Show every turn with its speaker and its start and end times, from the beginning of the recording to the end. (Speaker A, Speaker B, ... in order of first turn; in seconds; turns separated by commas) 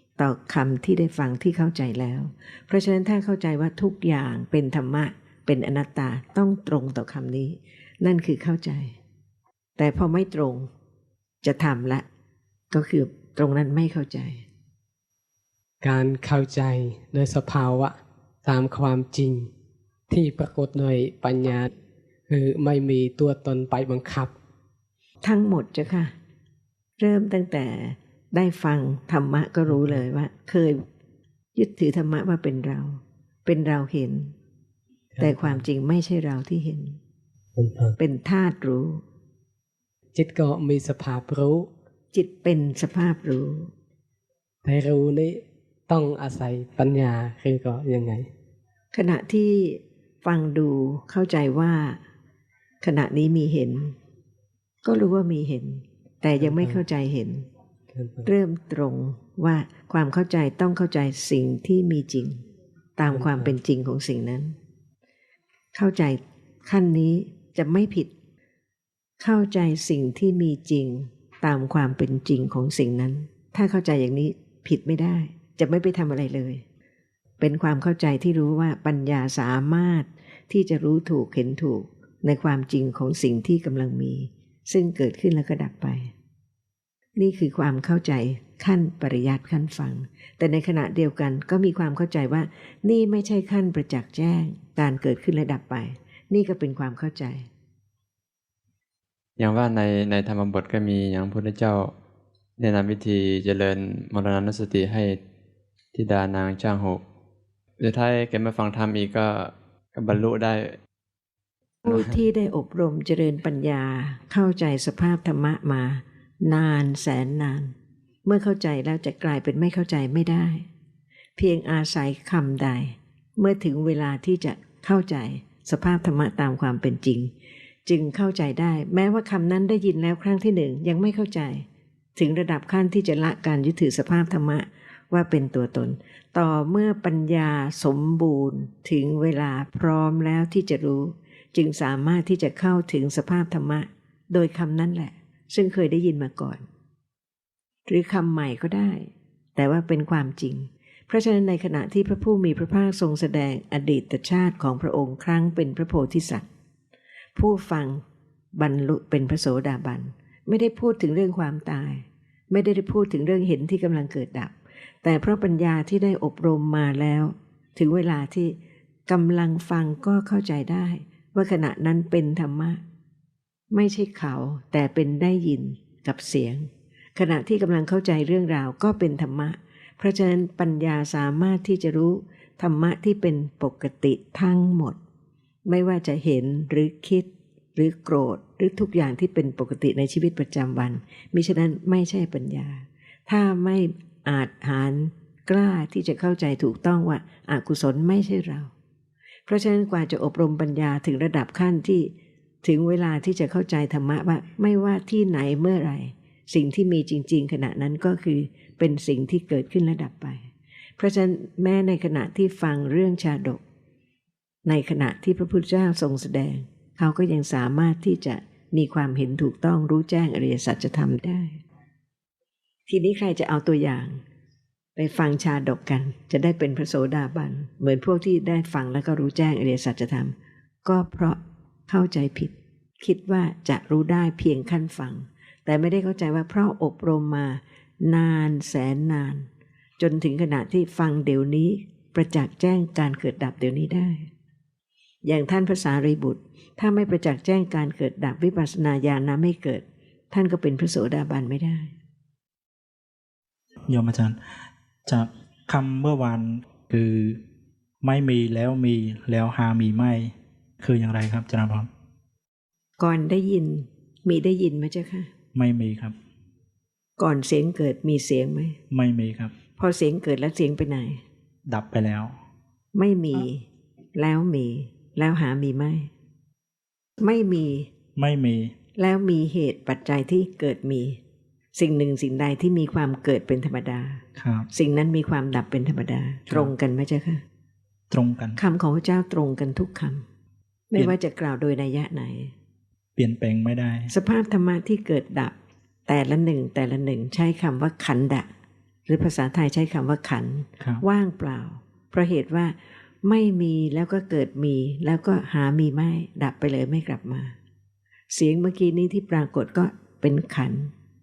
Speaker A: 0.2-9.0, Speaker A: 9.8-10.7, Speaker A: 11.4-12.1, Speaker A: 12.7-14.4, Speaker B: 15.8-19.5, Speaker B: 20.1-21.7, Speaker B: 22.3-24.3, Speaker A: 25.2-26.1, Speaker A: 27.0-30.9, Speaker B: 29.7-30.0, Speaker A: 31.6-34.3, Speaker B: 35.1-35.6, Speaker A: 35.2-37.0, Speaker B: 37.5-38.0, Speaker A: 38.0-39.0, Speaker B: 40.1-41.7, Speaker A: 42.1-43.7, Speaker B: 44.6-48.3, Speaker A: 48.9-52.0, Speaker A: 52.8-54.0, Speaker A: 54.8-57.5, Speaker B: 56.4-56.8, Speaker B: 57.9-58.3, Speaker A: 58.2-62.4, Speaker A: 63.0-64.6, Speaker B: 63.1-63.5, Speaker A: 65.7-68.1, Speaker A: 69.2-76.6, Speaker A: 77.4-86.1, Speaker A: 87.2-97.5, Speaker C: 99.4-101.9, Speaker C: 102.6-105.2, Speaker C: 105.9-107.0, Speaker C: 107.8-110.8, Speaker A: 111.8-120.7, Speaker C: 111.9-112.1, Speaker A: 121.4-127.3, Speaker A: 127.9-146.7, Speaker A: 147.9-156.4, Speaker A: 157.4-158.0, Speaker A: 158.6-172.8, Speaker A: 173.7-185.0, Speaker A: 185.7-198.7, Speaker A: 199.5-213.6, Speaker A: 214.7-221.6, Speaker A: 222.9-224.2, Speaker A: 224.9-239.5, Speaker A: 240.0-244.3, Speaker A: 245.2-251.9, Speaker D: 253.9-254.4, Speaker D: 255.1-257.4, Speaker D: 258.0-261.9, Speaker A: 263.0-265.3, Speaker D: 265.5-266.1, Speaker A: 267.2-268.8, Speaker D: 268.9-269.6, Speaker A: 269.8-271.2, Speaker D: 271.7-272.4, Speaker A: 272.9-276.1, Speaker A: 277.2-277.9, Speaker D: 278.1-278.7, Speaker A: 279.0-281.2, Speaker A: 281.7-287.4, Speaker D: 284.4-284.7, Speaker D: 288.1-288.6, Speaker A: 288.6-290.2, Speaker A: 290.9-292.5, Speaker D: 293.1-294.1, Speaker A: 294.1-295.5, Speaker A: 296.1-298.5, Speaker A: 299.1-307.6, Speaker A: 308.3-310.9